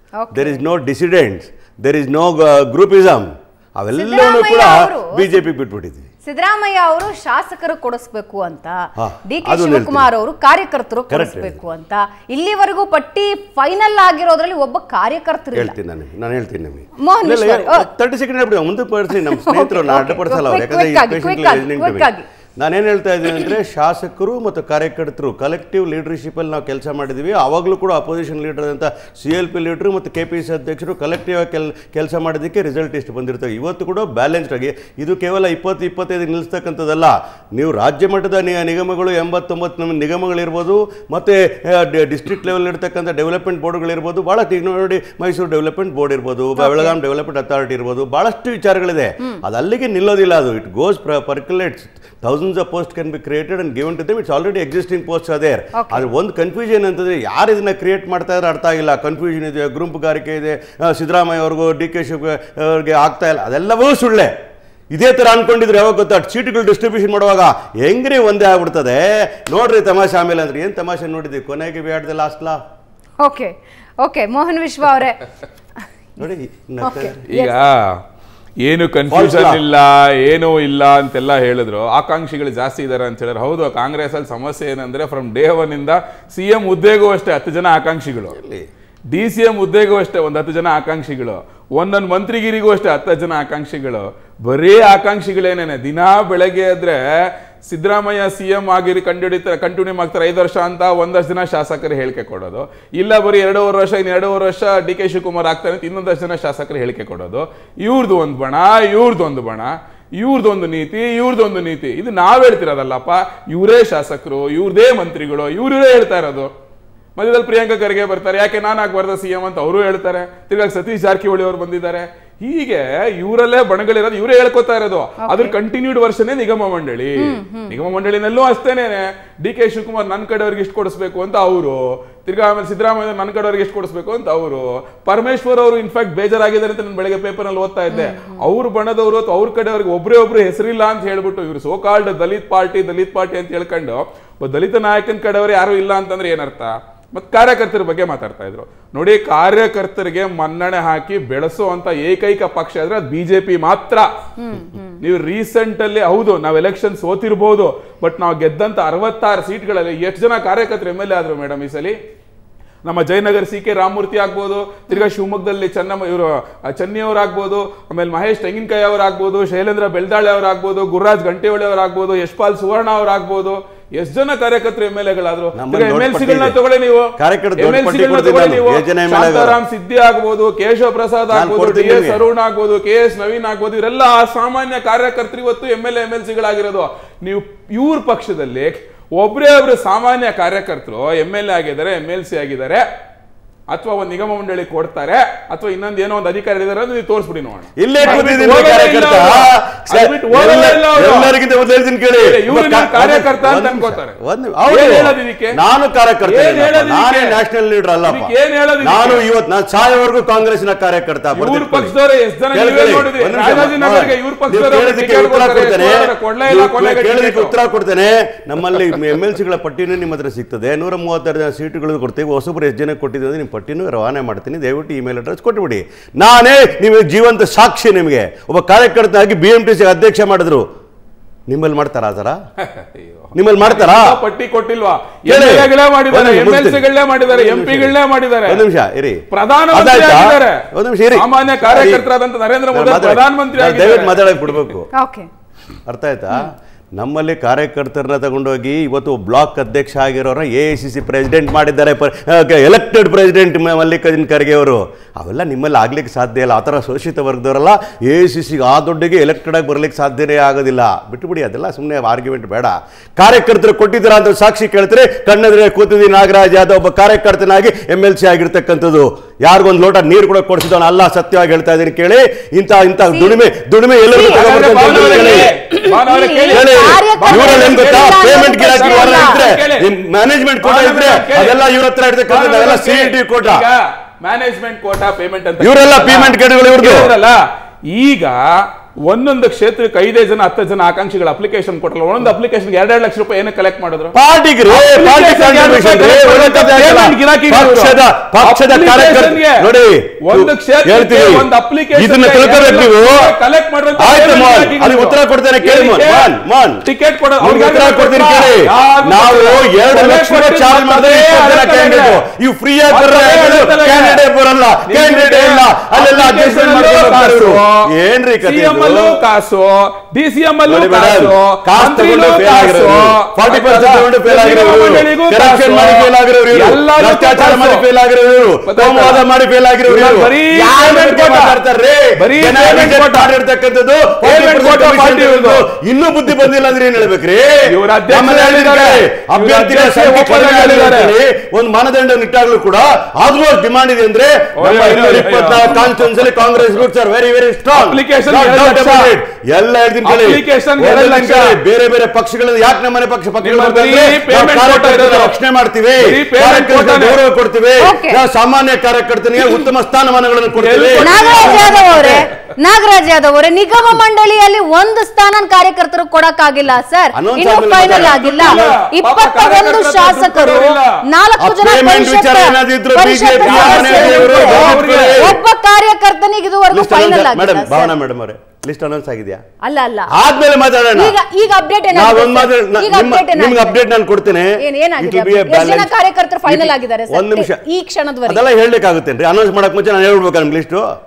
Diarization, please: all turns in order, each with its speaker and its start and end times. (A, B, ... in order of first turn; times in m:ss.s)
0:00.2-0:00.6 A
0:00.3-0:06.1 B
0:03.9-0:05.2 A
0:06.2-0:15.7 A
0:09.0-0:10.1 B
0:11.1-0:11.6 B
0:15.5-1:04.3 B
0:17.0-0:17.9 A
0:19.3-0:22.2 A
0:46.6-0:47.0 A
0:55.8-0:56.1 A
1:04.9-1:12.6 B
1:13.2-1:15.2 A
1:16.2-1:17.2 B
1:16.8-1:17.5 A
1:17.3-1:18.0 C
1:18.6-1:28.4 C
1:19.1-1:19.6 B
1:28.3-1:28.7 B
1:29.1-1:56.5 C
1:57.2-2:34.1 C
2:05.2-2:05.5 A
2:07.2-2:07.8 A
2:17.9-2:18.4 A
2:34.4-2:35.0 A
2:35.0-2:42.0 C
2:42.8-3:12.8 C
2:55.5-2:56.6 B
2:57.2-2:59.6 B
3:01.3-3:02.2 B
3:13.7-3:21.3 C
3:17.8-3:31.9 B
3:22.2-3:24.2 C
3:24.7-3:25.6 C
3:26.2-3:27.4 C
3:28.0-3:29.2 C
3:31.3-3:37.5 C
3:32.5-3:50.6 B
3:51.5-3:52.4 B
3:52.6-3:58.6 C
3:53.3-3:54.2 B
3:55.3-4:02.0 B
3:59.3-4:04.7 C
4:02.7-4:04.9 B
4:05.0-4:05.3 A
4:05.9-4:35.5 B
4:33.1-4:33.4 A
4:34.1-4:39.4 A
4:34.3-4:39.9 C
4:36.5-4:43.6 B
4:40.6-4:41.6 C
4:42.3-4:47.4 C
4:45.6-4:47.1 B
4:47.9-4:48.4 C
4:49.1-4:54.1 C
4:54.1-5:03.3 B
4:54.7-4:59.7 C
5:00.3-5:12.2 C
5:04.0-5:06.9 B
5:07.4-5:19.2 B
5:12.9-5:14.2 C
5:14.9-5:17.8 C
5:18.4-5:27.9 C
5:20.7-6:02.2 B
5:28.7-5:29.2 C
5:29.9-5:31.6 C
5:32.2-5:33.3 C
5:34.2-5:35.6 C
5:37.6-5:41.2 C
5:44.6-5:46.7 C
5:47.7-5:49.1 C
5:50.0-5:51.6 C
5:53.4-5:55.4 C
5:56.0-5:57.2 C
5:57.8-5:58.2 A
6:00.6-6:02.2 C
6:01.0-6:17.9 A
6:07.2-6:08.7 B
6:07.8-6:10.9 C
6:11.4-6:15.4 B
6:13.4-6:15.2 C
6:16.7-6:19.4 B
6:19.6-6:20.1 A
6:20.1-6:21.2 B
6:20.9-6:23.8 A
6:21.9-6:25.9 B
6:24.6-6:28.4 A
6:26.4-6:27.6 B
6:28.3-6:30.9 B